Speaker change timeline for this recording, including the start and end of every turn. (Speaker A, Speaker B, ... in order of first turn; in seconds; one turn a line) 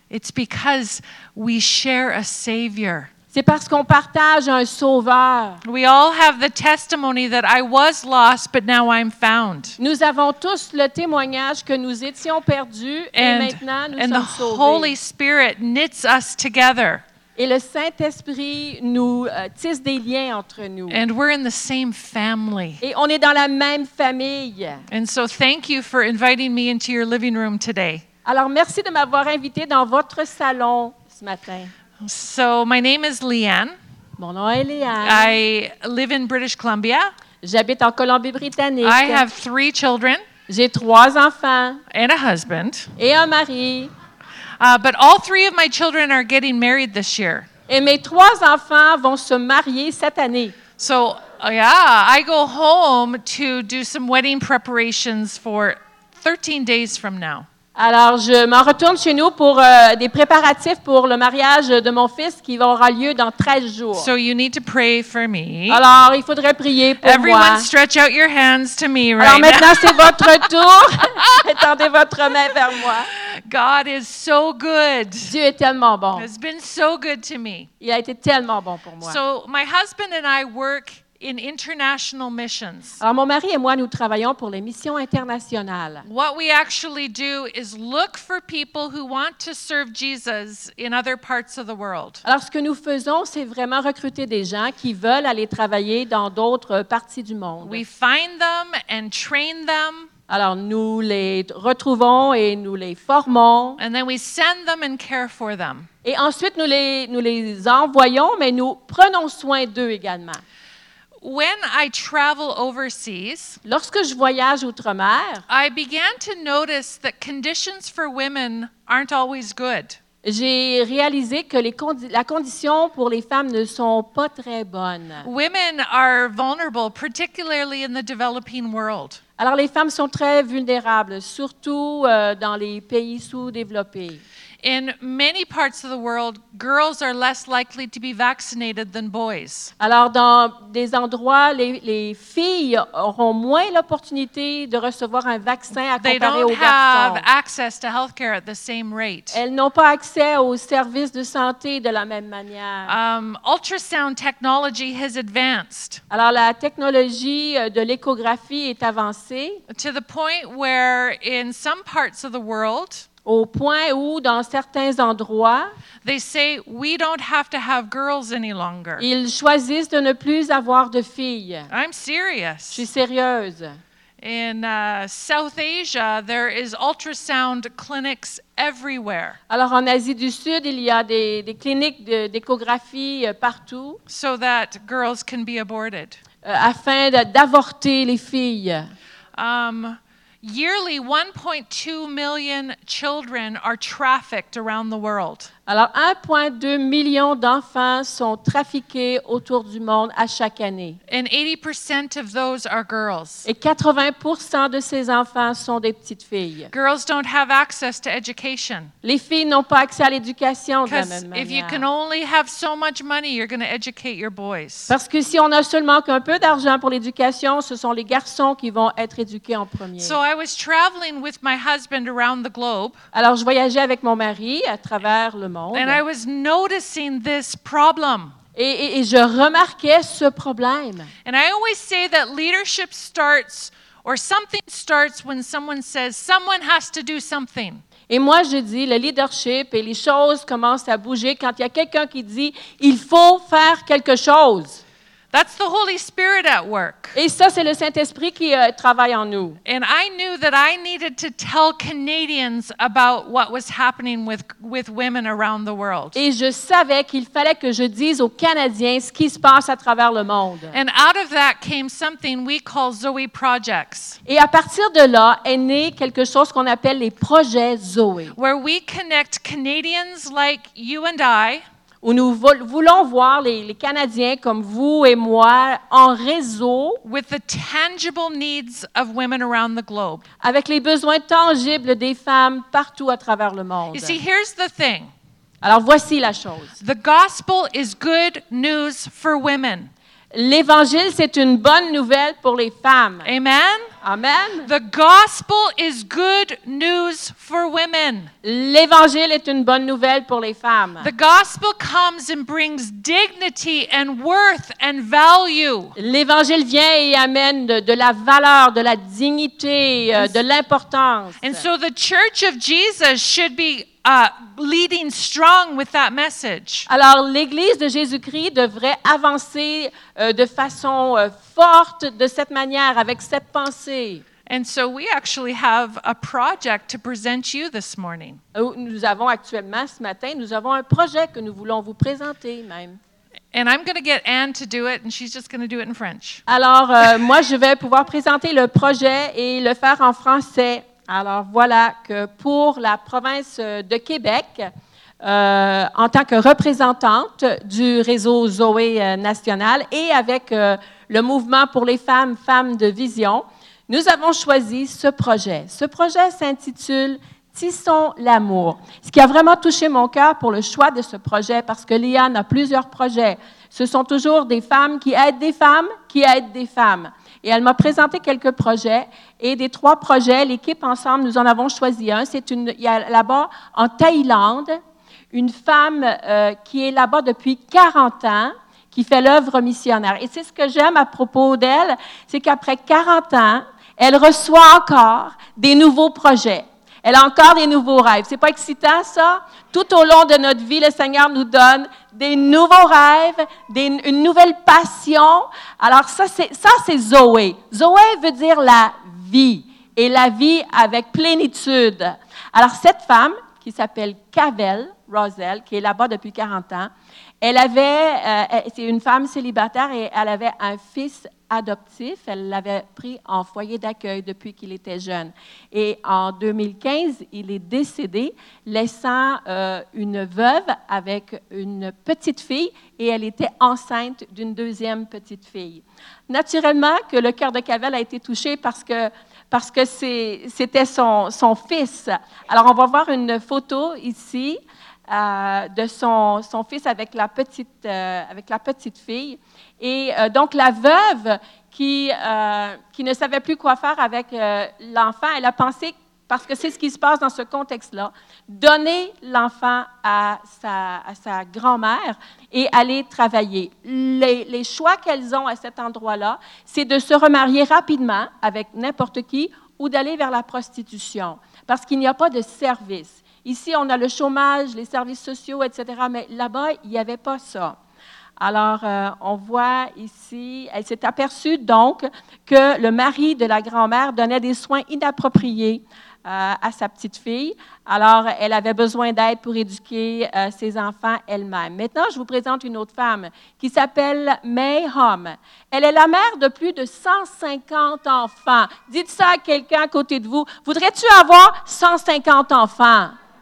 Speaker A: 0.1-3.1
Speaker B: 3.3-5.6
Speaker A: 5.6-9.8
Speaker B: 9.8-14.9
Speaker A: 13.2-17.0
Speaker B: 17.4-21.0
Speaker A: 20.9-22.8
Speaker B: 22.8-24.8
Speaker A: 24.9-28.0
Speaker B: 28.2-31.7
Speaker A: 32.0-33.8
Speaker B: 34.2-35.4
Speaker A: 35.0-37.1
Speaker B: 37.4-39.2
Speaker A: 38.8-40.2
Speaker B: 40.5-41.8
Speaker A: 41.9-42.9
Speaker B: 43.0-43.9
Speaker A: 44.6-47.5
Speaker B: 47.7-50.6
Speaker A: 50.8-57.5
Speaker B: 57.8-64.1
Speaker A: 64.0-65.8
Speaker B: 65.7-67.7
Speaker A: 67.0-70.5
Speaker B: 69.2-73.1
Speaker A: 73.1-75.3
Speaker B: 75.3-76.3
Speaker A: 76.2-77.7
Speaker B: 77.8-79.2
Speaker A: 79.0-83.0
Speaker B: 83.0-86.0
Speaker A: 86.0-92.2
Speaker B: 92.2-97.8
Speaker A: 97.6-100.1
Speaker B: 100.3-103.8
Speaker A: 103.8-105.9
Speaker B: 106.0-110.4
Speaker A: 111.2-113.6
Speaker B: 113.7-115.5
Speaker A: 115.5-120.0
Speaker B: 120.2-125.3
Speaker A: 125.2-129.2
Speaker B: 129.4-134.2
Speaker A: 134.6-139.7
Speaker B: 139.8-147.2
Speaker A: 146.0-149.4
Speaker B: 149.3-152.9
Speaker A: 152.8-156.0
Speaker B: 156.1-159.6
Speaker A: 159.7-163.1
Speaker B: 163.3-165.7
Speaker A: 166.0-169.1
Speaker B: 169.0-171.7
Speaker A: 171.7-172.8
Speaker B: 172.7-173.8
Speaker A: 174.2-179.4
Speaker B: 179.5-184.0
Speaker A: 184.1-186.2
Speaker B: 186.4-188.9
Speaker A: 189.3-195.5
Speaker B: 195.7-201.0
Speaker A: 201.1-203.5
Speaker B: 203.5-206.7
Speaker A: 206.7-208.9
Speaker B: 209.0-211.8
Speaker A: 210.9-214.9
Speaker B: 214.9-220.2
Speaker A: 220.0-223.0
Speaker B: 223.1-226.0
Speaker A: 225.7-228.3
Speaker B: 228.6-231.1
Speaker A: 231.2-237.8
Speaker B: 238.1-244.8
Speaker A: 245.3-247.2
Speaker B: 247.2-249.6
Speaker A: 249.7-256.2
Speaker B: 256.1-260.8
Speaker A: 260.7-264.2
Speaker B: 264.3-268.4
Speaker A: 268.4-271.6
Speaker B: 272.0-277.0
Speaker A: 277.0-280.2
Speaker B: 280.4-284.2
Speaker A: 283.9-285.1
Speaker B: 285.6-286.7
Speaker A: 286.8-289.9
Speaker B: 290.3-293.3
Speaker A: 293.2-293.9
Speaker B: 294.0-294.7
Speaker A: 294.6-298.3
Speaker B: 298.4-301.1
Speaker A: 301.0-305.9
Speaker B: 306.0-311.6
Speaker A: 311.4-316.9
Speaker B: 316.9-324.2
Speaker A: 324.5-328.4
Speaker B: 328.6-333.0
Speaker A: 333.5-336.4
Speaker B: 336.5-344.7
Speaker B: 345.2-374.8
Speaker B: 375.3-406.9
Speaker B: 407.4-467.8
Speaker B: 468.4-493.1